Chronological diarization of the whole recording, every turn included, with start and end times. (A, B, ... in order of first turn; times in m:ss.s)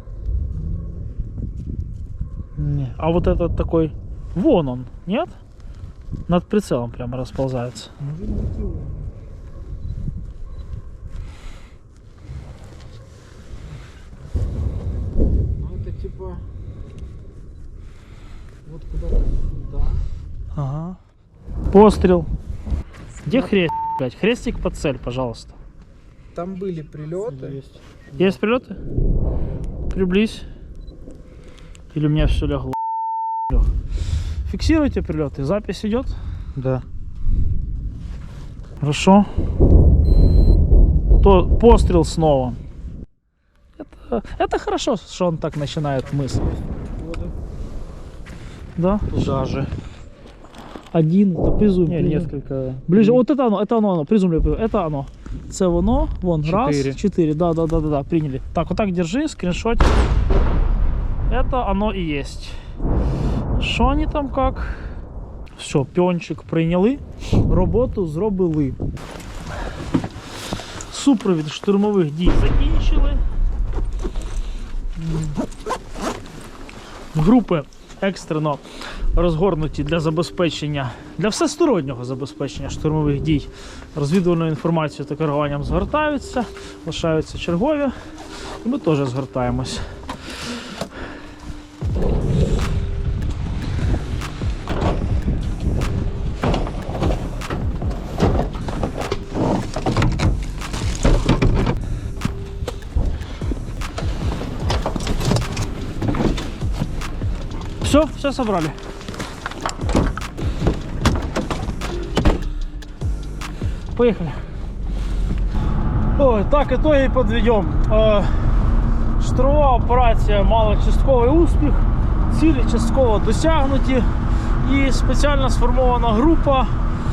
0:02.6-0:05.4 A
0:06.3-0:07.9 A
0:08.0-0:09.0 B
0:15.6-0:16.4 B
0:18.7-0:20.1 B
0:20.6-0:21.0 A
0:21.7-0:22.3 A
0:23.3-0:25.6 A
0:26.3-0:27.6 B
0:27.3-0:28.4 C
0:28.2-0:28.8 A
0:29.9-0:30.5 A
0:31.9-0:32.8 A
0:34.5-0:36.1 A
0:36.6-0:36.8 C
0:38.8-0:39.3 A
0:41.2-0:42.6 A
0:43.8-0:46.5 A
0:46.8-0:47.3 C
0:48.8-0:49.4 A
0:49.1-0:49.7 C
0:50.9-0:52.3 A
0:51.9-0:53.2 C
0:52.9-0:59.9 A
0:56.4-0:57.0 C
1:01.3-1:02.6 A
1:03.6-1:05.0 A
1:05.6-1:08.8 A
1:10.9-1:13.2 A
1:15.0-1:15.3 A
1:17.1-1:18.6 A
1:19.1-1:27.9 A
1:28.6-1:29.8 A
1:47.8-1:48.8 A
1:54.0-1:54.4 A
1:56.2-1:58.6 A
1:59.2-2:04.1 A
2:04.6-2:06.7 A